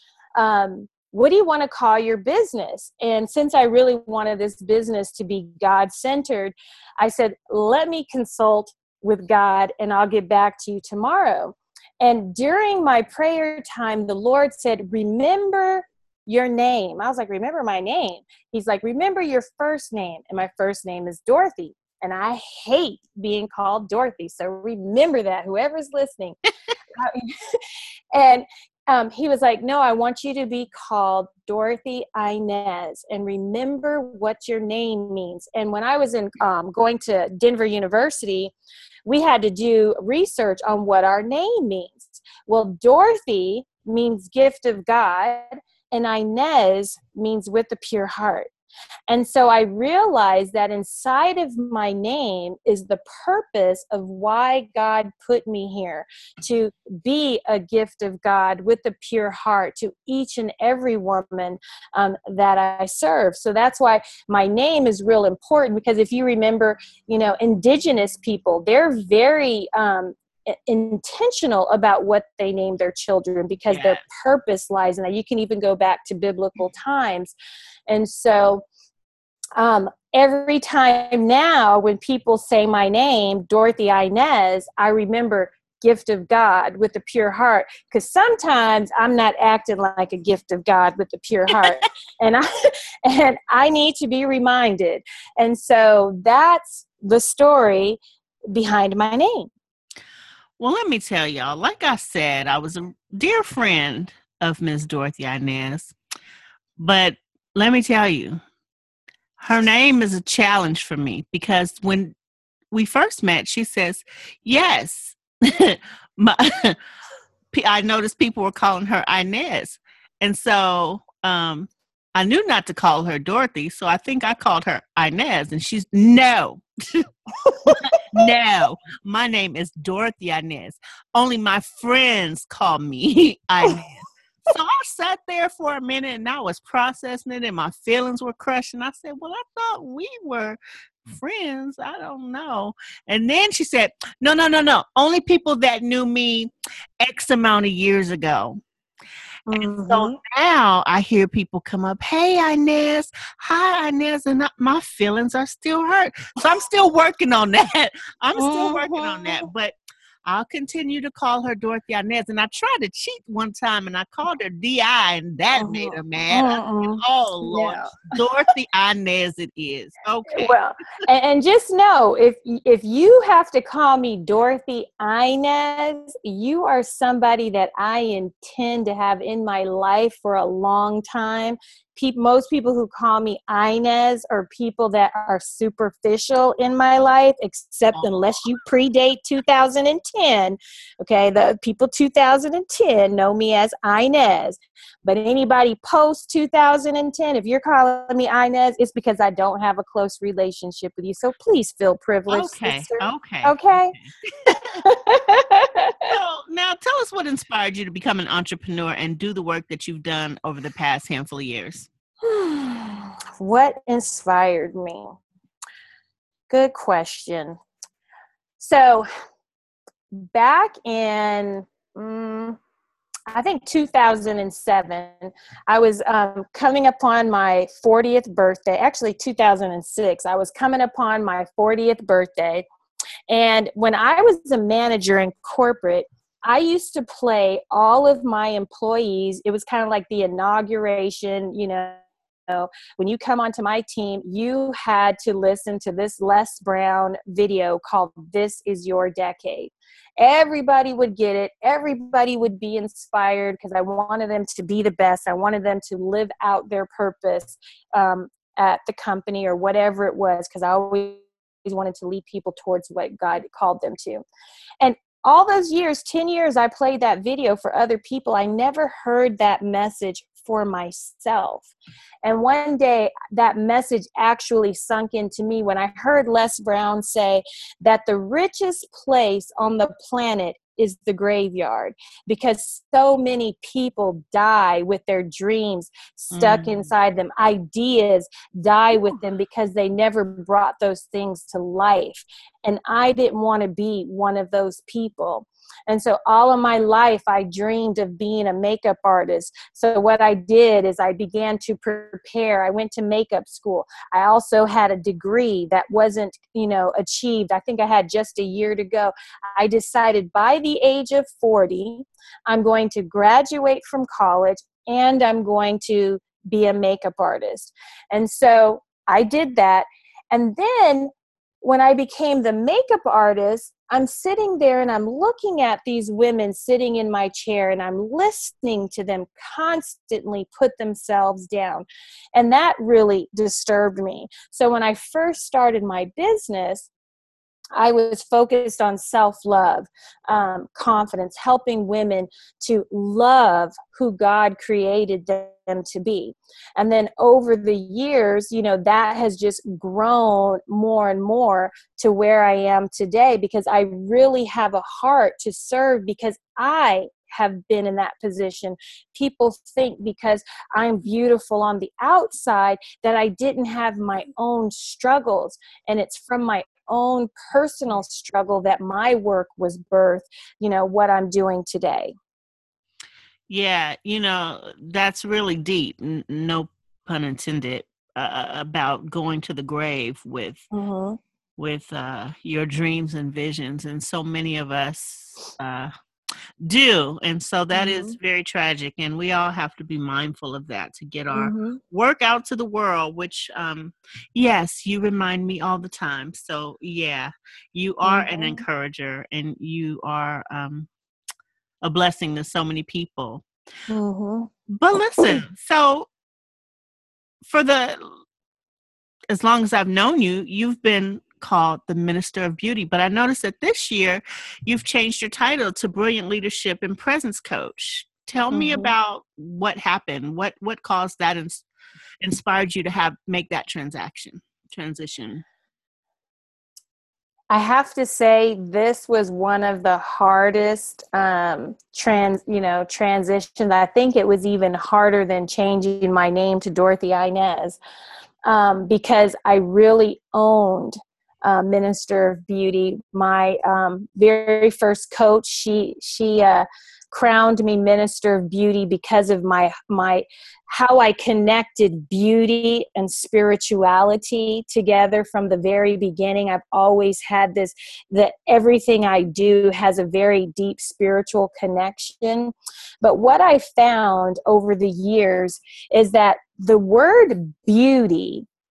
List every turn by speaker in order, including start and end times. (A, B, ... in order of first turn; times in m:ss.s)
0:00.4-0:26.4 A
0:27.0-0:27.3 A
0:28.1-0:38.5 A
0:39.1-0:48.5 A
0:49.1-1:17.3 A
1:13.7-1:14.0 B
1:17.9-1:18.6 A
1:19.6-1:38.0 A
1:38.5-1:39.5 A
1:40.6-1:46.0 B
1:46.8-1:48.4 B
1:49.4-1:52.2 B
1:52.7-1:56.8 B
1:57.5-2:07.1 B
2:07.5-2:08.0 A
2:07.7-2:28.6 B
2:29.5-2:30.2 A
2:29.6-2:39.7 B
2:38.4-2:39.4 A
2:40.2-2:50.6 B
2:45.5-2:48.0 A
2:50.3-3:24.0 A
3:22.3-3:24.0 B
3:24.5-3:26.1 A
3:26.1-3:31.9 B
3:32.2-3:35.2 A
3:36.5-3:37.6 A
3:38.6-3:39.1 A
3:40.2-3:42.6 A
3:43.3-3:52.6 A
3:53.3-4:24.2 A
4:24.8-4:31.7 A
4:32.2-5:21.1 A
4:46.3-4:46.8 B
5:21.6-5:36.9 A
5:37.8-6:12.1 A
6:13.5-6:20.6 B
6:20.7-6:21.2 A
6:21.6-6:25.9 B
6:26.6-6:40.9 B
6:27.7-6:28.2 A
6:31.3-6:31.8 A
6:38.0-6:38.6 A
6:41.8-6:43.5 B
6:43.9-6:44.5 A
6:44.7-6:46.1 B
6:45.2-6:45.4 A
6:47.4-6:48.2 B
6:49.3-7:01.7 B
6:58.5-6:58.9 A
7:02.2-7:05.4 B
7:07.5-7:17.8 A
7:18.5-7:48.5 A